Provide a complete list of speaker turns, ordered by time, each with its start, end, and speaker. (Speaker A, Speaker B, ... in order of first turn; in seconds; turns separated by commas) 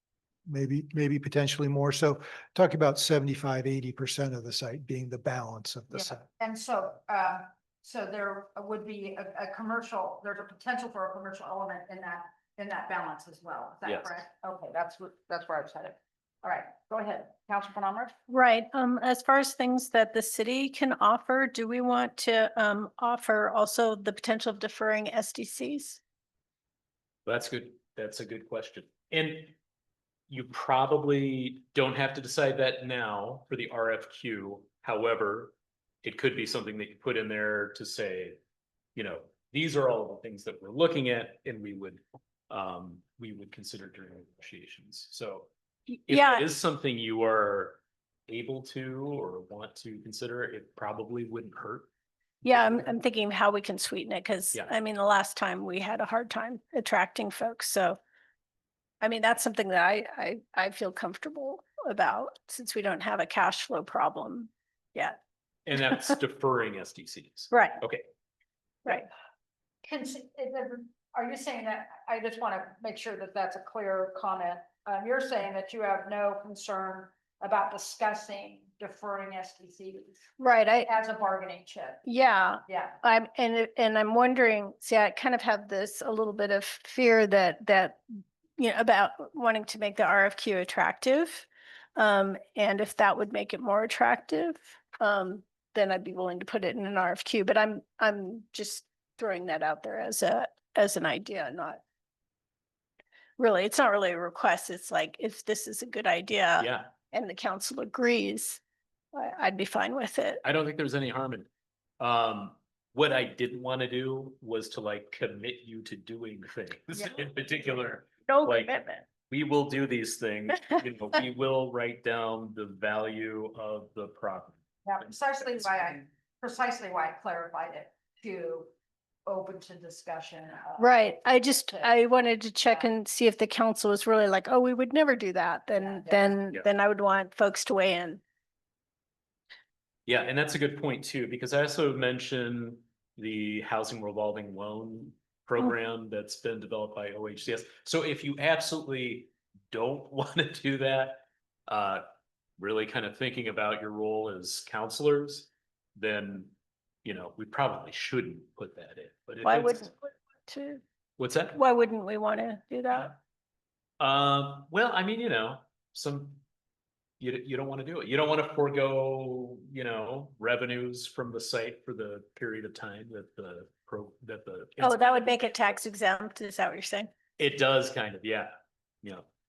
Speaker A: 0.5-6.2, Speaker B: 5.9-18.1, Speaker C: 13.8-14.2, Speaker D: 18.3-26.0, Speaker C: 27.2-29.5, Speaker C: 30.3-38.4, Speaker C: 39.0-45.5, Speaker D: 45.9-46.5, Speaker C: 46.1-51.9, Speaker D: 52.4-58.0, Speaker C: 52.5-52.9, Speaker D: 59.0-65.2, Speaker C: 65.7-68.0, Speaker D: 67.5-67.8, Speaker B: 69.8-80.2, Speaker D: 80.4-80.9, Speaker B: 80.8-82.0, Speaker D: 82.0-88.0, Speaker B: 82.7-83.0, Speaker D: 88.6-101.8, Speaker D: 103.4-108.6, Speaker C: 106.6-106.9, Speaker D: 109.1-110.4, Speaker C: 110.4-111.5, Speaker C: 112.0-124.6, Speaker B: 116.9-117.2, Speaker D: 118.2-119.1, Speaker B: 124.8-128.7, Speaker B: 129.2-131.9, Speaker D: 130.8-138.2, Speaker B: 135.8-136.3, Speaker C: 140.1-152.0, Speaker C: 152.6-156.5, Speaker C: 157.0-159.9, Speaker D: 159.4-160.8, Speaker C: 161.2-161.6, Speaker D: 161.5-163.2, Speaker C: 164.0-166.4, Speaker C: 167.2-175.4, Speaker D: 174.8-177.1, Speaker C: 177.4-178.5